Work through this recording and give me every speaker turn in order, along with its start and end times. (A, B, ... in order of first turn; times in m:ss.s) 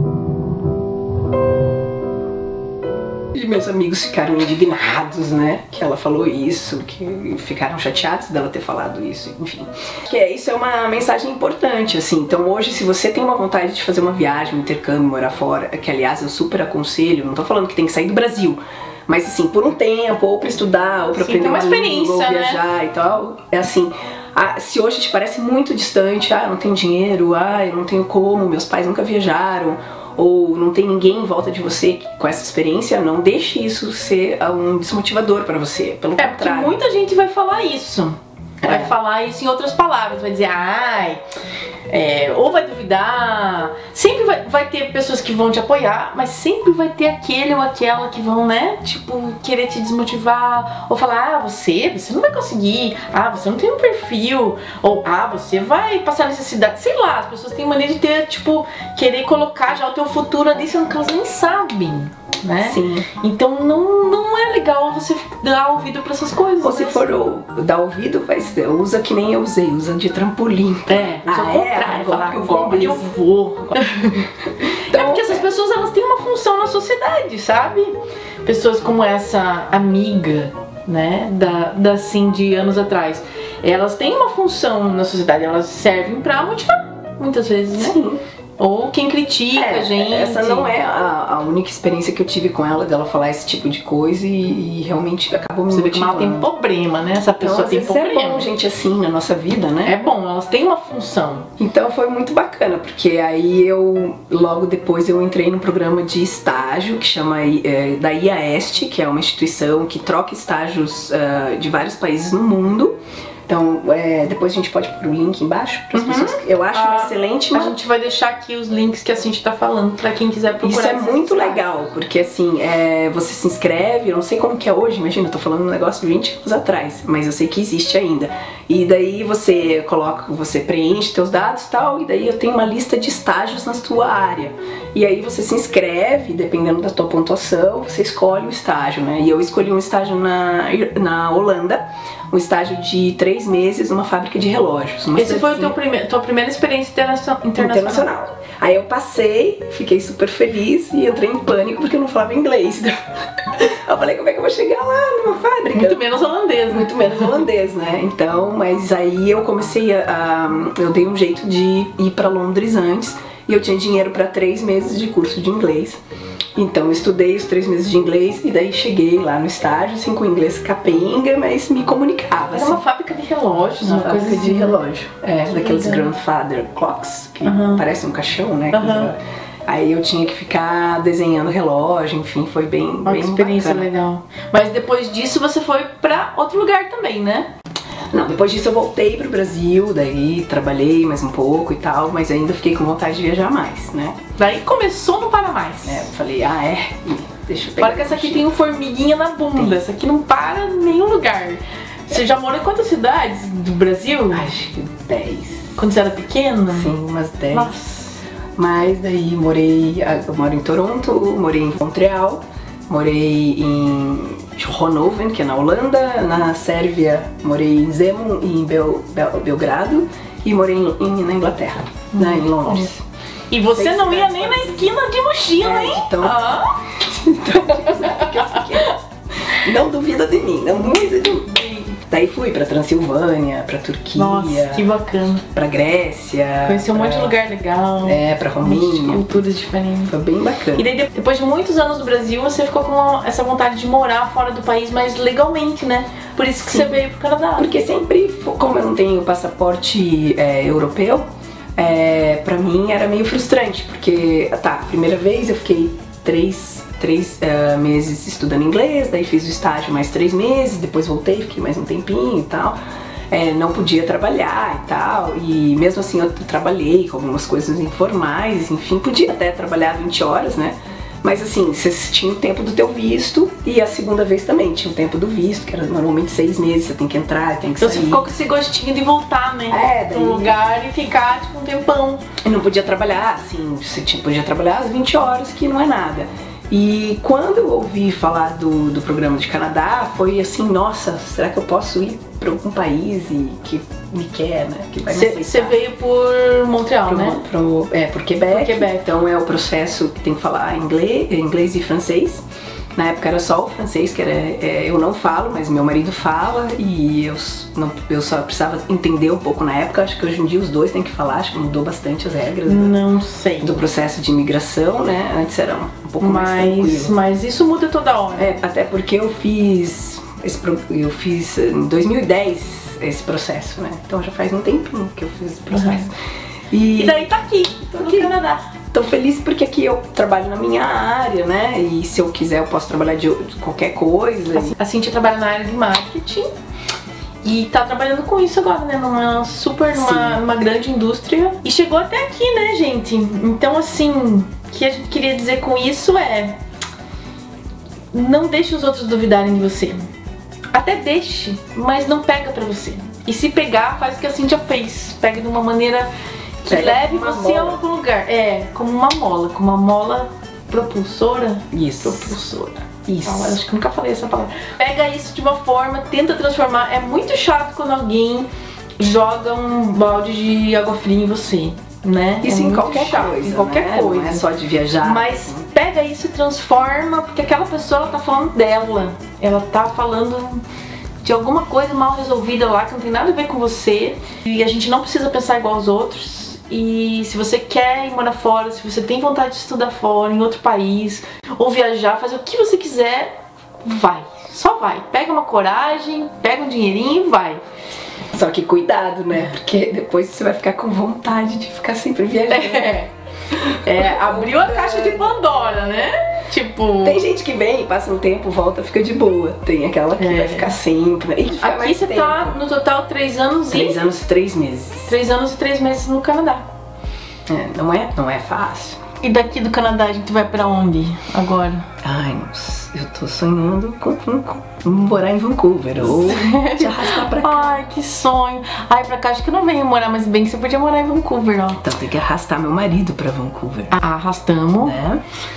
0:03.3-0:36.8 A
0:21.2-0:22.6 B
0:36.2-0:41.2 B
0:38.6-0:38.9 A
0:41.9-1:07.1 B
1:02.6-1:03.1 A
1:06.6-1:13.1 A
1:10.9-1:14.3 B
1:14.9-1:15.5 A
1:14.9-1:28.0 B
1:27.8-1:28.2 A
1:28.6-1:30.7 B
1:29.6-1:36.5 A
1:35.7-1:38.5 B
1:37.4-1:40.0 A
1:39.8-1:41.5 B
1:41.6-1:57.8 A
1:55.9-2:01.7 B
2:00.6-2:25.7 A
2:25.2-2:28.1 B
2:27.6-2:36.2 A
2:35.7-2:37.4 B
2:36.7-2:46.0 A
2:46.6-2:52.8 A
2:52.5-2:54.8 B
2:53.8-3:03.9 A
2:55.5-2:56.1 B
2:57.4-2:57.8 B
2:58.7-2:59.1 B
3:03.0-3:07.5 B
3:08.1-3:14.2 A
3:14.4-3:16.1 B
3:15.8-3:18.5 A
3:17.8-3:24.5 B
3:24.3-3:25.8 A
3:25.8-3:26.9 B
3:26.7-3:27.8 A
3:27.5-3:28.2 B
3:28.6-3:43.0 A
3:42.1-3:42.9 B
3:43.5-3:46.8 B
3:43.7-3:54.9 A
3:48.0-3:48.9 B
3:50.8-3:52.0 B
3:54.2-3:55.4 B
3:55.5-3:57.4 A
3:56.6-4:00.1 B
3:58.0-3:59.5 A
4:00.1-4:00.9 A
4:00.8-4:07.8 B
4:06.6-4:07.0 A
4:07.6-4:22.8 A
4:23.3-4:38.3 A
4:37.8-4:42.2 B
4:39.7-4:40.6 A
4:42.4-4:55.8 A
4:55.1-4:57.4 B
4:57.1-5:02.4 A
4:58.5-4:59.1 B
5:03.0-5:13.0 A
5:12.6-5:13.8 B
5:13.6-5:17.2 A
5:16.2-5:18.5 B
5:18.4-5:26.1 A
5:25.7-5:26.1 B
5:26.7-5:27.3 A
5:27.0-5:28.7 B
5:27.9-5:28.3 A
5:28.9-5:34.8 A
5:34.5-5:36.5 B
5:37.4-5:46.6 B
5:39.9-5:40.4 A
5:48.1-5:50.0 B
5:50.7-5:56.1 B
5:56.6-6:08.5 B
5:56.7-5:57.8 A
6:01.7-6:02.4 A
6:03.1-6:03.6 A
6:09.0-6:14.4 B
6:12.4-6:15.6 A
6:15.0-6:20.6 B
6:21.2-6:37.6 B
6:38.3-6:43.0 A
6:42.5-6:43.1 B
6:43.5-6:45.7 A
6:43.6-6:47.2 B
6:47.0-6:52.6 A
6:50.2-6:50.8 B
6:51.6-6:54.1 B
6:53.7-6:55.1 A
6:55.1-6:56.7 B
6:57.5-6:59.0 A
6:59.2-7:01.9 B
7:02.0-7:07.8 A
7:06.0-7:11.8 B
7:11.8-7:14.0 A
7:13.9-7:15.0 B
7:14.8-7:15.2 A